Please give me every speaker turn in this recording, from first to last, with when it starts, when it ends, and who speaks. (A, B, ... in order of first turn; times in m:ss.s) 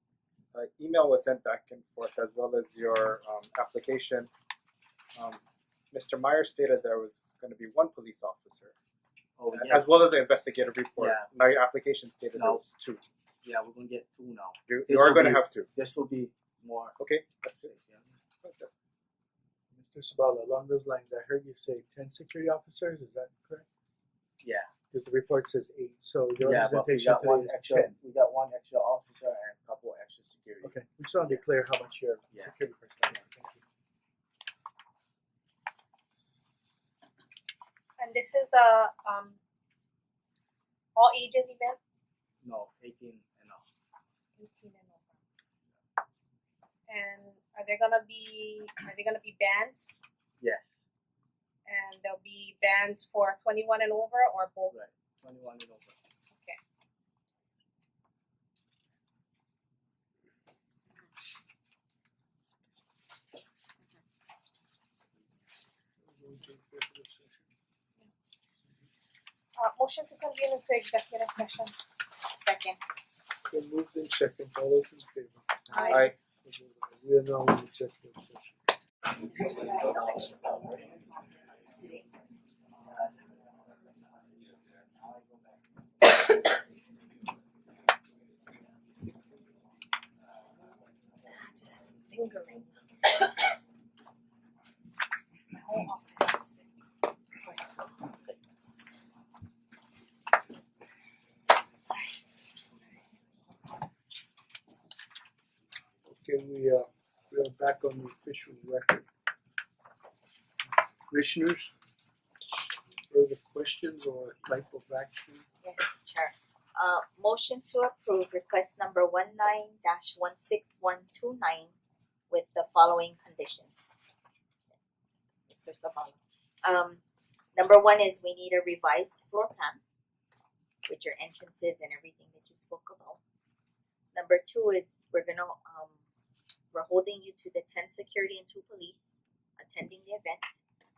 0:00.5-0:04.3 A
0:05.1-0:05.4 A
0:05.9-0:08.7 A
0:09.4-0:09.9 B
0:09.5-0:13.0 A
0:11.0-0:11.3 B
0:12.4-0:17.0 B
0:14.7-0:15.7 A
0:17.0-0:17.7 A
0:17.6-0:18.1 B
0:18.4-0:18.7 A
0:19.7-0:23.6 C
0:24.4-0:24.7 B
0:24.9-0:27.9 C
0:26.4-0:31.4 B
0:30.6-0:33.6 C
0:38.0-0:39.4 D
0:41.0-0:41.8 D
0:42.4-0:43.6 B
0:44.4-0:45.2 D
0:46.9-0:49.9 D
0:50.4-0:50.8 B
0:51.7-0:54.8 D
0:54.7-0:56.0 B
0:56.3-0:56.6 D
1:06.1-1:07.4 C
1:09.6-1:11.7 D
1:12.3-1:12.8 E
1:13.5-1:18.6 C
1:15.7-1:16.1 D
1:19.4-1:22.0 E
1:31.3-1:32.7 D
1:35.5-1:36.6 D
1:46.0-1:49.0 C
1:51.1-1:51.7 C
1:53.1-1:55.4 C
1:55.6-2:01.7 E
2:02.3-2:03.7 E
2:05.5-2:07.0 E
2:07.5-2:09.8 E
2:10.8-2:13.2 E
2:14.1-2:16.0 E
2:16.7-2:20.6 E